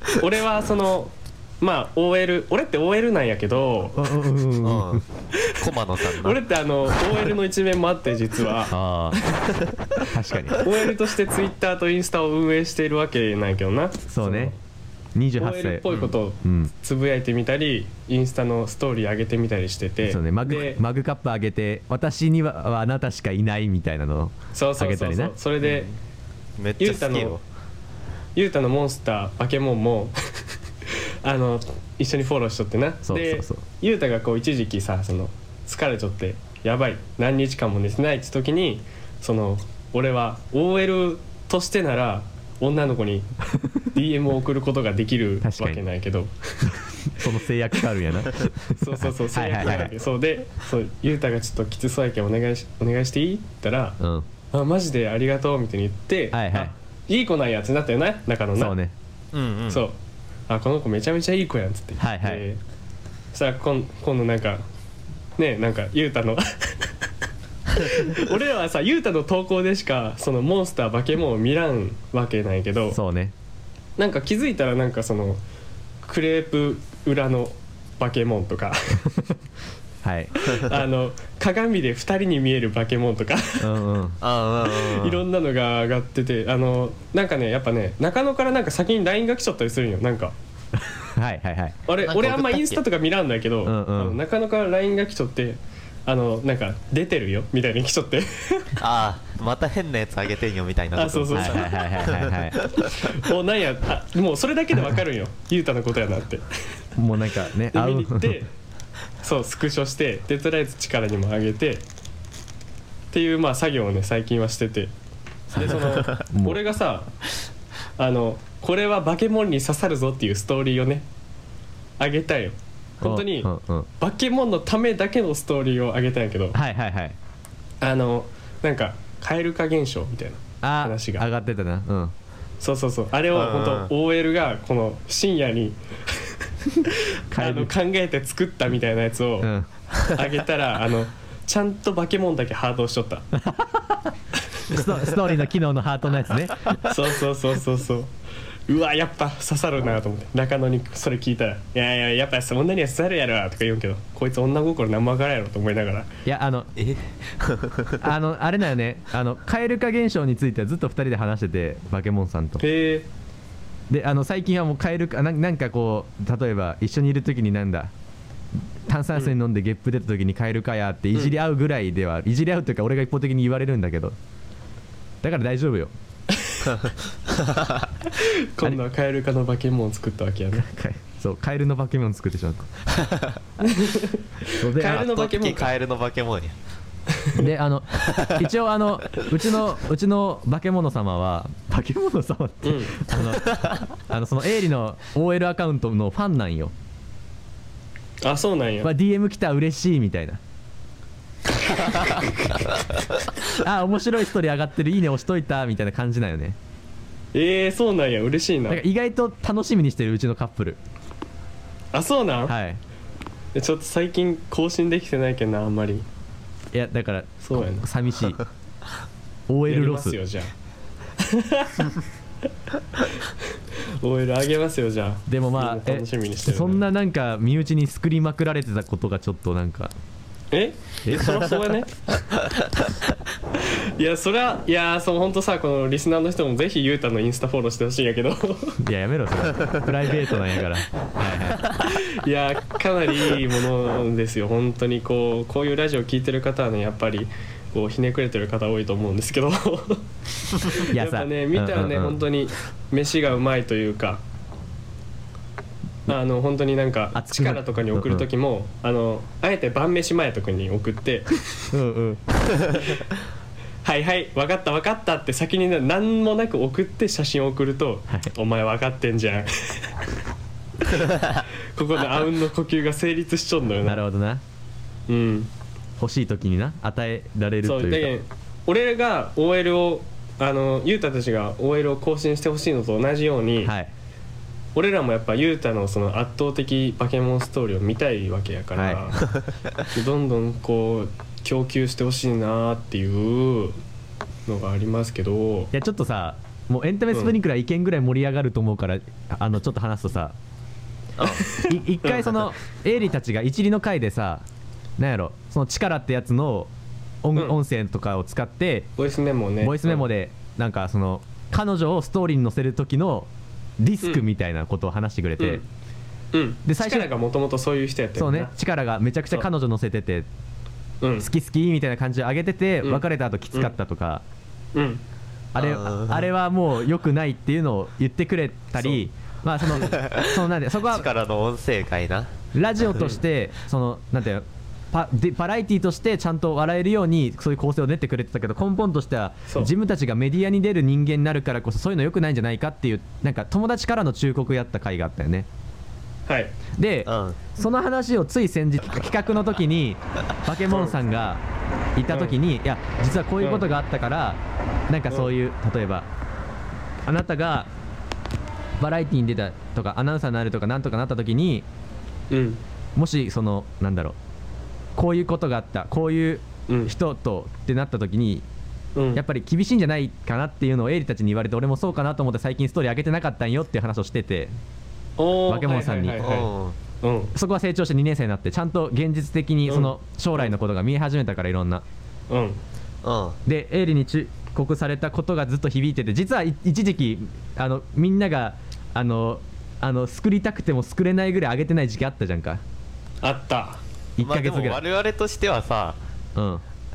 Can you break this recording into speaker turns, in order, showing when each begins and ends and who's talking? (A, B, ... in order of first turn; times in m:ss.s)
0:00.2-0:04.0 A
0:03.9-0:05.0 B
0:04.6-0:05.0 C
0:05.3-0:05.6 A
0:05.6-0:06.4 C
0:06.1-0:09.5 A
0:08.7-0:09.2 B
0:10.0-0:10.7 B
0:10.6-0:14.5 A
0:14.1-0:14.5 B
0:15.1-0:16.7 B
0:15.4-0:20.8 A
0:20.0-0:25.3 B
0:24.5-0:25.9 A
0:26.6-0:27.4 C
0:26.8-0:27.4 A
0:28.4-0:30.4 A
0:31.2-0:43.3 A
0:33.0-0:33.6 B
0:43.8-0:46.8 A
0:45.4-0:45.8 B
0:46.7-0:49.9 B
0:48.8-0:54.0 A
0:49.6-0:49.9 C
0:54.0-0:54.3 B
0:54.5-0:58.8 A
0:56.3-0:56.7 B
0:58.6-0:58.9 B
0:59.3-0:59.8 C
0:59.7-1:02.6 A
1:02.0-1:02.4 B
1:03.3-1:04.6 A
1:05.4-1:07.0 A
1:07.7-1:13.0 A
1:12.9-1:13.3 B
1:14.0-1:15.4 A
1:16.0-1:19.2 A
1:20.0-1:20.5 B
1:20.3-1:23.8 A
1:23.6-1:24.2 B
1:24.2-1:25.2 C
1:24.6-1:30.3 A
1:31.0-1:31.8 B
1:31.9-1:38.8 A
1:32.0-1:32.8 C
1:33.6-1:34.2 B
1:38.8-1:42.8 C
1:40.9-1:41.9 A
1:41.3-1:42.6 B
1:42.8-1:46.4 A
1:47.0-1:48.4 B
1:47.7-1:48.5 A
1:49.2-1:51.8 A
1:53.1-1:54.9 A
1:55.5-1:56.6 B
1:55.5-1:57.1 A
1:58.0-2:01.0 A
2:02.0-2:06.6 A
2:03.0-2:03.9 B
2:06.5-2:07.2 B
2:07.8-2:11.2 A
2:10.6-2:12.1 B
2:12.6-2:19.5 A
2:13.3-2:13.9 C
2:17.3-2:17.7 B
2:19.4-2:19.7 B
2:20.0-2:23.3 A
2:23.3-2:24.1 B
2:24.7-2:27.0 B
2:26.8-2:28.1 A
2:28.7-2:36.1 A
2:36.2-2:36.7 B
2:36.8-2:38.0 C
2:38.0-2:42.6 B
2:42.6-2:43.1 A
2:43.9-2:47.9 B
2:48.9-2:54.1 B
2:55.2-2:55.9 B
2:56.3-2:56.7 A
2:56.6-2:57.9 C
2:58.1-3:00.7 A
3:00.6-3:02.7 B
3:02.9-3:03.3 C
3:03.6-3:05.7 A
3:04.6-3:05.1 B
3:04.9-3:06.5 C
3:07.1-3:07.4 A
3:07.3-3:16.7 B
3:08.1-3:08.4 C
3:12.6-3:13.0 A
3:18.2-3:18.9 A
3:18.8-3:20.4 B
3:23.4-3:26.6 B
3:27.3-3:28.8 A
3:28.7-3:30.8 B
3:31.9-3:32.5 A
3:32.4-3:32.8 B
3:33.5-3:36.0 A
3:36.7-3:38.4 B
3:37.4-3:37.9 A
3:39.5-3:40.2 B
3:39.6-3:40.5 A
3:41.2-3:41.9 A
3:43.0-3:43.4 A
3:44.0-3:46.8 A
3:45.3-3:49.9 B
3:50.5-3:52.0 A
3:51.0-3:51.5 B
3:53.5-3:58.8 A
3:58.8-4:01.8 B
4:01.8-4:14.2 A
4:10.8-4:12.2 B
4:16.1-4:21.4 A
4:17.1-4:18.3 B
4:21.7-4:22.2 B
4:23.8-4:30.0 A
4:31.7-4:34.0 A
4:33.8-4:34.4 B
4:35.1-4:35.5 A
4:36.0-4:38.1 B
4:37.6-4:43.7 A
4:43.6-4:43.9 B
4:44.7-4:49.3 A
4:48.7-4:49.1 B
4:49.9-4:53.8 A
4:54.5-4:55.7 A
4:55.7-5:00.4 B
5:01.2-5:01.4 C
5:01.2-5:02.4 A
5:01.5-5:04.4 B
5:05.0-5:06.7 B
5:07.2-5:08.9 B
5:09.0-5:10.0 A
5:09.6-5:15.6 B
5:15.4-5:15.6 A
5:16.3-5:18.5 A
5:16.6-5:17.1 B
5:18.2-5:20.3 B
5:21.0-5:21.3 A
5:21.2-5:24.2 B
5:22.8-5:23.7 A
5:24.7-5:25.0 A
5:25.5-5:31.1 B
5:25.6-5:26.3 C
5:29.8-5:30.2 C
5:30.9-5:32.3 C
5:32.5-5:45.5 B
5:39.5-5:39.7 A
5:46.3-5:46.5 A
5:46.8-5:51.4 B
5:47.0-5:47.4 C
5:52.0-5:56.1 B
5:52.1-5:52.4 A
5:53.4-5:53.6 A
5:57.0-5:57.7 B
5:58.8-6:01.7 B
6:02.3-6:02.6 A
6:03.0-6:04.2 B
6:05.0-6:08.4 B
6:06.7-6:06.9 A
6:09.0-6:09.2 A
6:09.1-6:14.5 B
6:15.2-6:17.3 A
6:15.5-6:16.2 B
6:16.2-6:16.8 C
6:17.3-6:21.8 B
6:19.7-6:20.5 A
6:22.3-6:22.6 A
6:23.0-6:23.4 C
6:23.4-6:32.6 B
6:33.2-6:33.8 A
6:34.2-6:34.8 B
6:34.2-6:36.0 C
6:36.4-6:36.6 B